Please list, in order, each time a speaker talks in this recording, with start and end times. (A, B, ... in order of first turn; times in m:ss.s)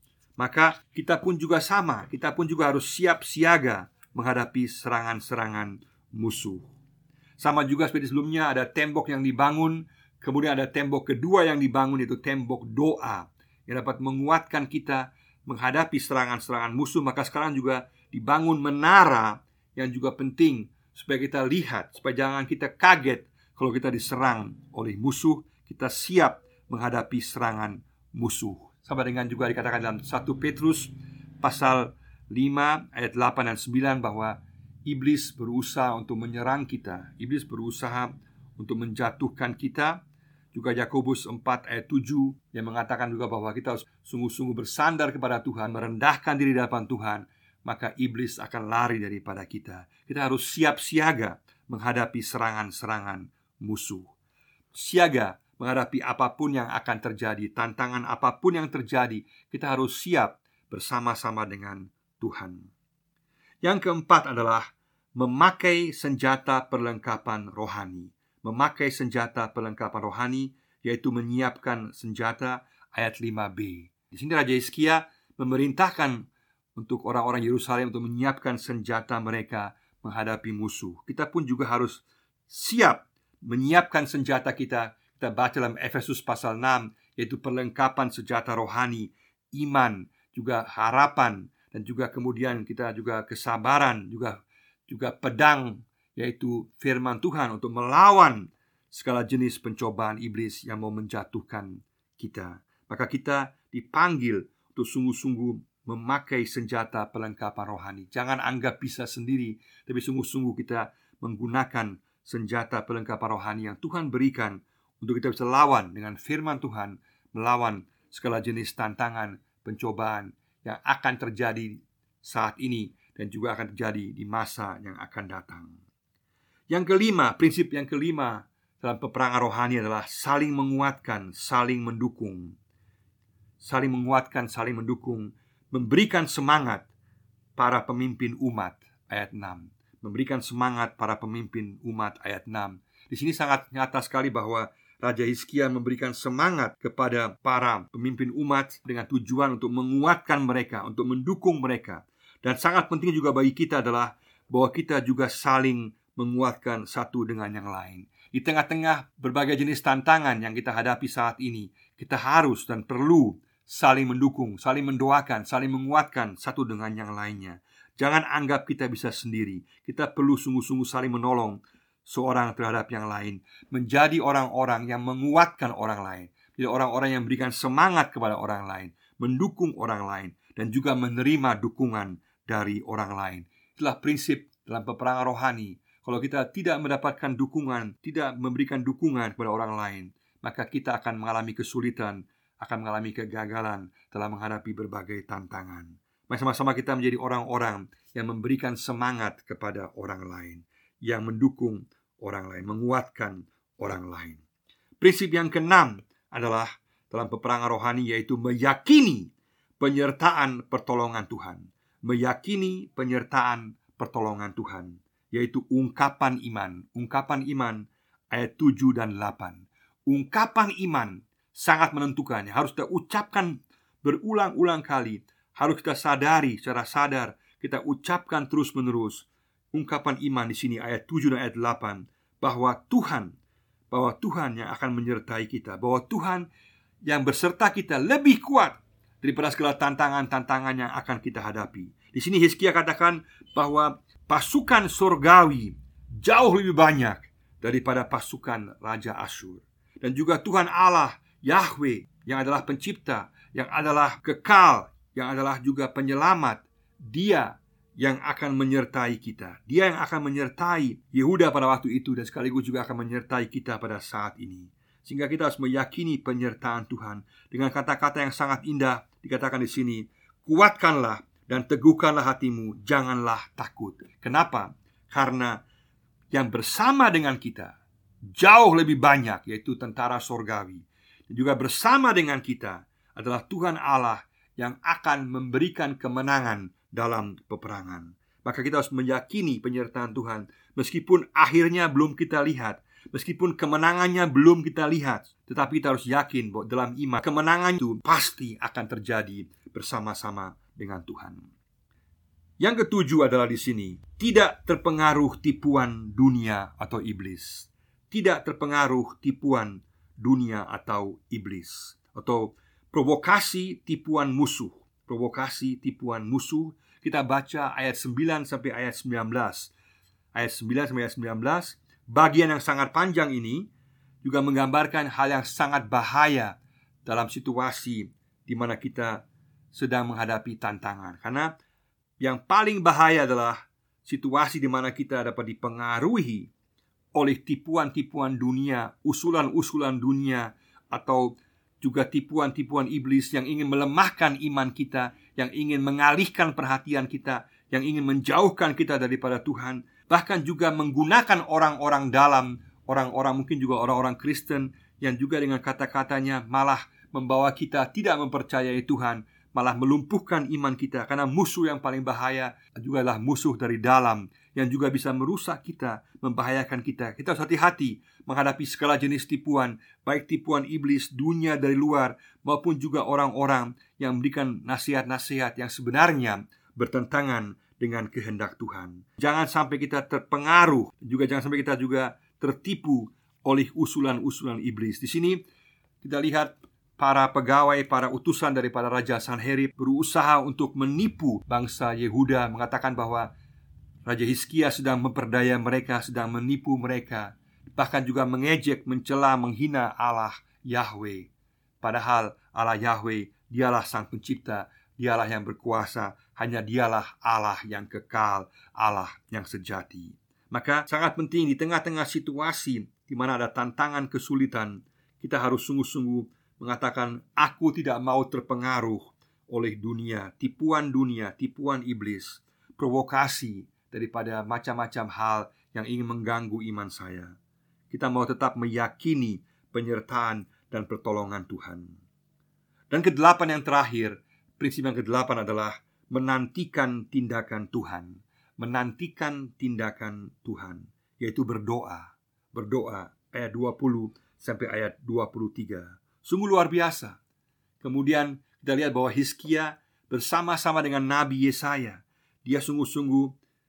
0:00.4-0:06.7 A
0:07.4-0:40.0 A
0:40.5-0:54.1 A
0:54.7-1:02.7 A
1:03.6-1:04.6 A
1:05.2-2:05.8 A
2:06.7-2:12.5 A
2:13.6-2:16.9 A
2:17.6-3:24.4 A
3:25.0-3:53.3 A
3:53.9-3:56.5 A
3:57.0-4:35.6 A
4:36.3-4:37.8 A
4:38.3-5:01.4 A
5:02.6-5:19.7 A
5:20.3-5:23.6 A
5:24.2-5:31.5 A
5:32.2-5:36.5 A
5:37.2-5:41.3 A
5:41.8-6:25.4 A
6:26.0-6:33.3 A
6:34.0-6:41.3 A
6:41.8-7:07.3 A
7:07.9-7:12.0 A
7:12.9-7:27.2 A
7:27.8-7:33.3 A